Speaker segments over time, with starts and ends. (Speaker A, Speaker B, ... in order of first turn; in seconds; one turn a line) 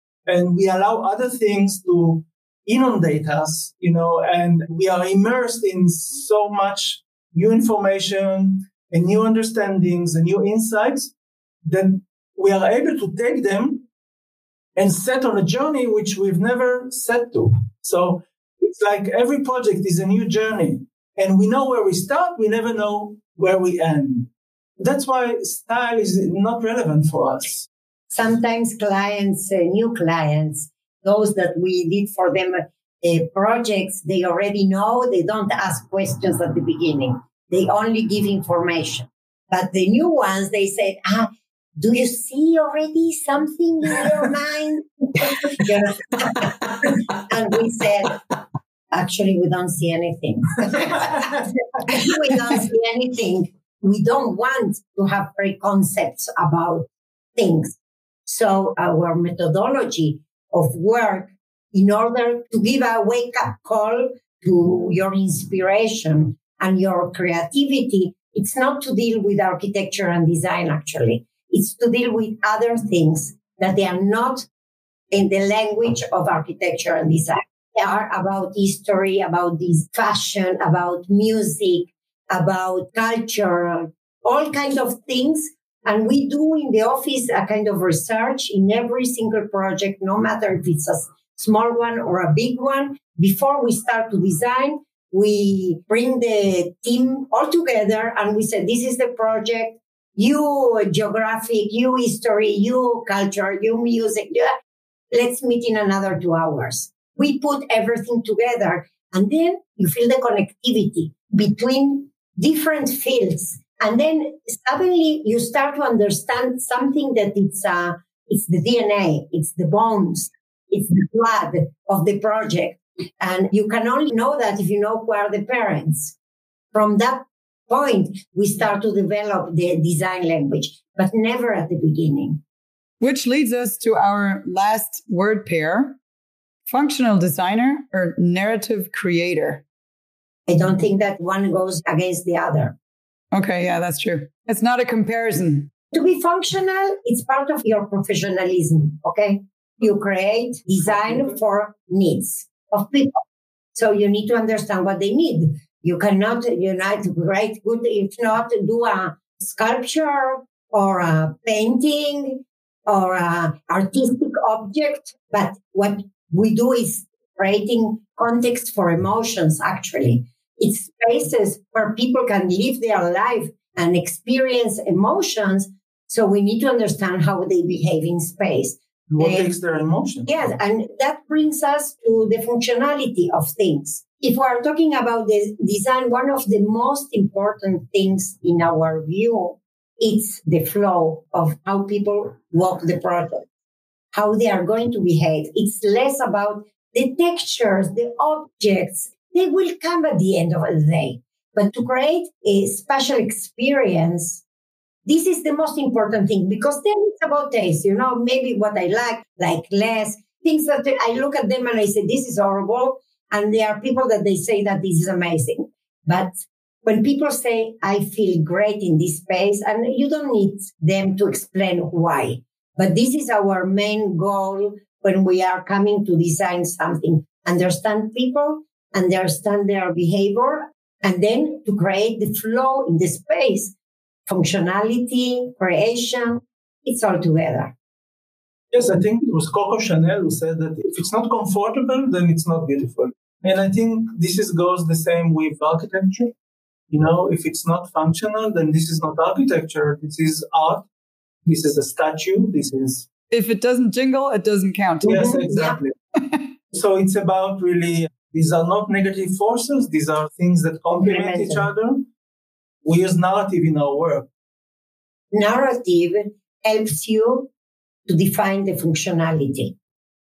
Speaker A: 0.2-11.1
Speaker A: 11.6-13.8
Speaker A: 14.8-27.7
Speaker B: 28.1-48.2
Speaker B: 48.9-74.5
Speaker B: 75.1-104.5
Speaker B: 105.1-126.2
Speaker B: 126.7-132.4
Speaker C: 133.0-136.0
Speaker C: 136.7-139.6
Speaker B: 140.5-142.8
Speaker C: 143.3-145.7
Speaker B: 145.9-153.2
Speaker B: 153.7-179.5
Speaker A: 179.1-180.3
Speaker B: 180.3-193.4
Speaker B: 194.1-204.4
Speaker B: 205.0-233.7
Speaker B: 234.2-237.7
Speaker A: 238.7-246.3
Speaker A: 246.9-250.9
Speaker A: 251.5-253.1
Speaker C: 253.3-255.3
Speaker A: 255.0-255.9
Speaker B: 255.1-255.8
Speaker A: 256.7-262.1
Speaker B: 261.0-261.7
Speaker A: 262.8-264.3
Speaker B: 265.3-267.5
Speaker B: 268.1-269.8